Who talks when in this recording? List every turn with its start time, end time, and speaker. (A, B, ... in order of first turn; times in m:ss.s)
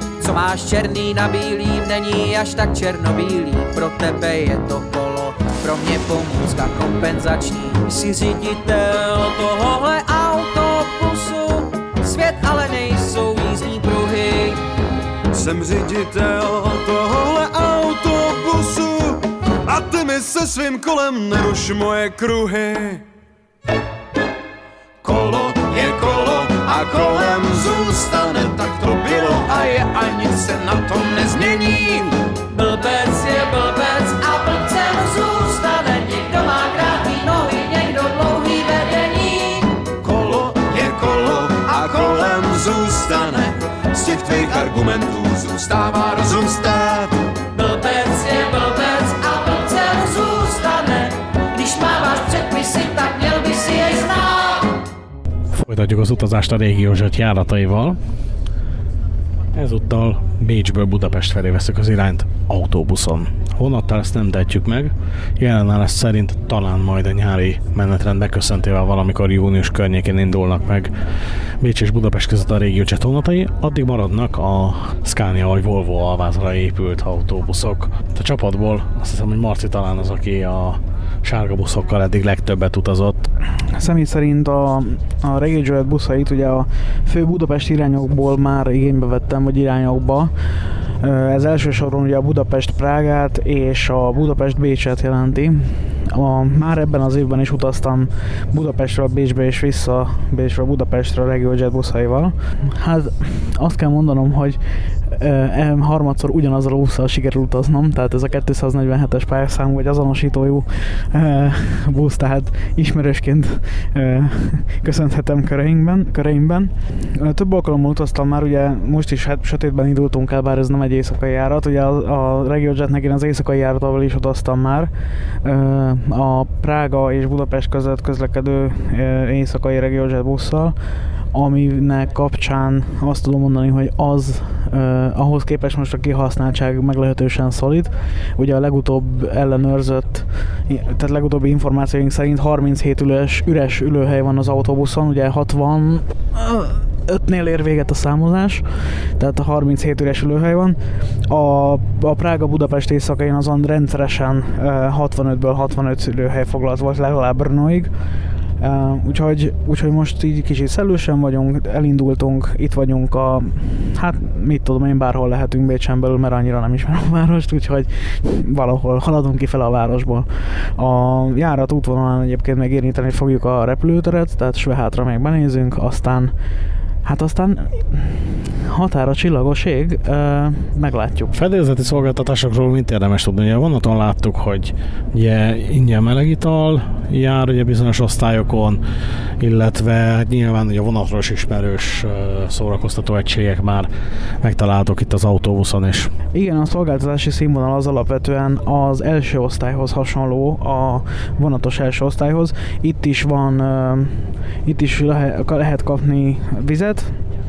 0:00.2-0:14.6 A
0:15.3-0:23.0 B
0:25.0-0:32.2 B
0:32.5-0:39.8 C
0:40.0-0:47.2 B
0:47.5-0:54.7 C
0:55.5-0:58.0 D
0:59.5-1:10.9 D
1:11.6-1:23.3 D
1:23.7-1:30.3 E
1:31.0-2:04.9 E
2:05.4-2:10.7 E
2:11.3-2:37.9 E
2:38.6-2:56.3 E
2:57.0-3:01.3 E
3:01.3-3:08.8 D
3:09.4-3:13.9 D
3:14.4-3:16.1 D
3:16.3-3:27.2 E